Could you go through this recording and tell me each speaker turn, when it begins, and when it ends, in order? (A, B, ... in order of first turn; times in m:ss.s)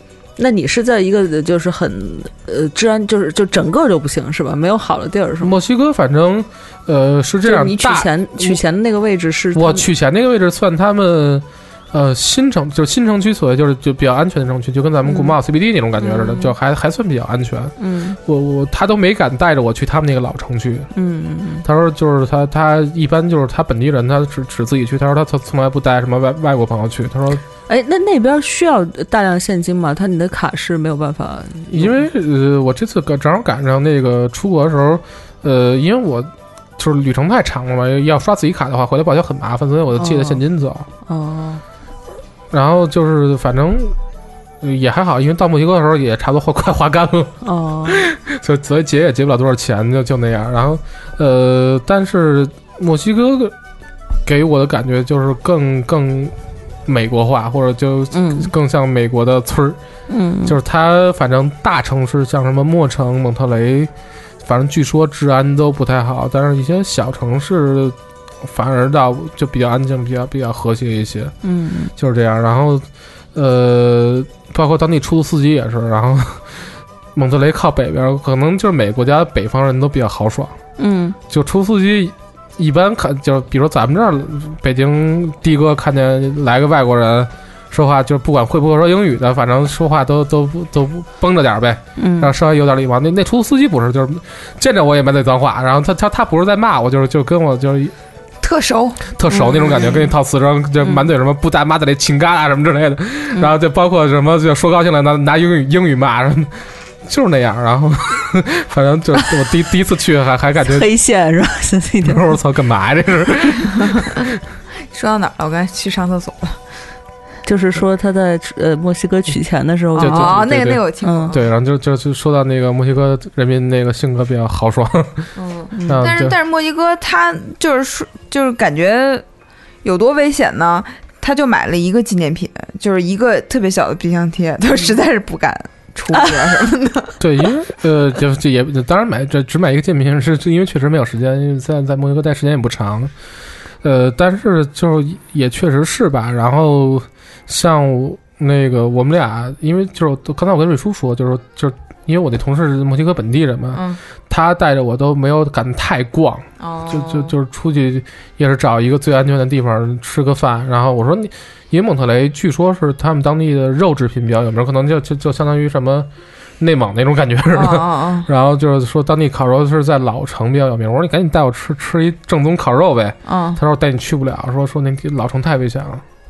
0:00.4-0:05.5 A
0:05.4-0:08.6 B
0:07.4-0:09.9 A
0:09.5-0:20.9 B
0:15.0-0:15.4 A
0:16.0-0:16.5 A
0:17.8-0:18.2 A
0:20.9-0:21.6 A
0:21.6-0:27.4 B
0:27.7-0:32.0 A
0:31.7-0:40.9 B
0:40.0-0:40.4 A
0:41.0-0:41.6 A
0:42.5-0:44.0 B
0:44.6-0:47.4 B
0:47.4-0:48.0 A
0:47.9-0:53.5 B
0:54.2-0:56.3 B
0:56.8-0:59.8 B
0:58.1-0:58.5 A
1:00.1-1:00.6 A
1:00.4-1:03.9 B
1:04.4-1:11.3 B
1:11.4-1:11.9 A
1:12.0-1:16.6 B
1:17.1-1:20.6 B
1:20.8-1:21.2 A
1:21.3-1:37.9 B
1:32.0-1:32.3 A
1:38.4-1:39.1 C
1:39.2-1:50.9 B
1:39.3-1:40.1 A
1:40.8-1:41.1 A
1:50.6-1:52.3 A
1:52.0-1:54.2 B
1:54.9-1:56.6 C
1:57.4-2:00.5 A
2:00.0-2:01.4 C
2:00.0-2:05.3 B
2:01.0-2:01.3 A
2:05.4-2:09.2 C
2:05.7-2:06.0 A
2:05.9-2:06.4 B
2:09.8-2:17.2 C
2:17.2-2:23.1 B
2:23.8-2:46.1 B
2:33.7-2:34.0 C
2:36.6-2:37.3 C
2:46.6-2:56.0 B
2:47.5-2:48.3 C
2:53.2-2:53.6 C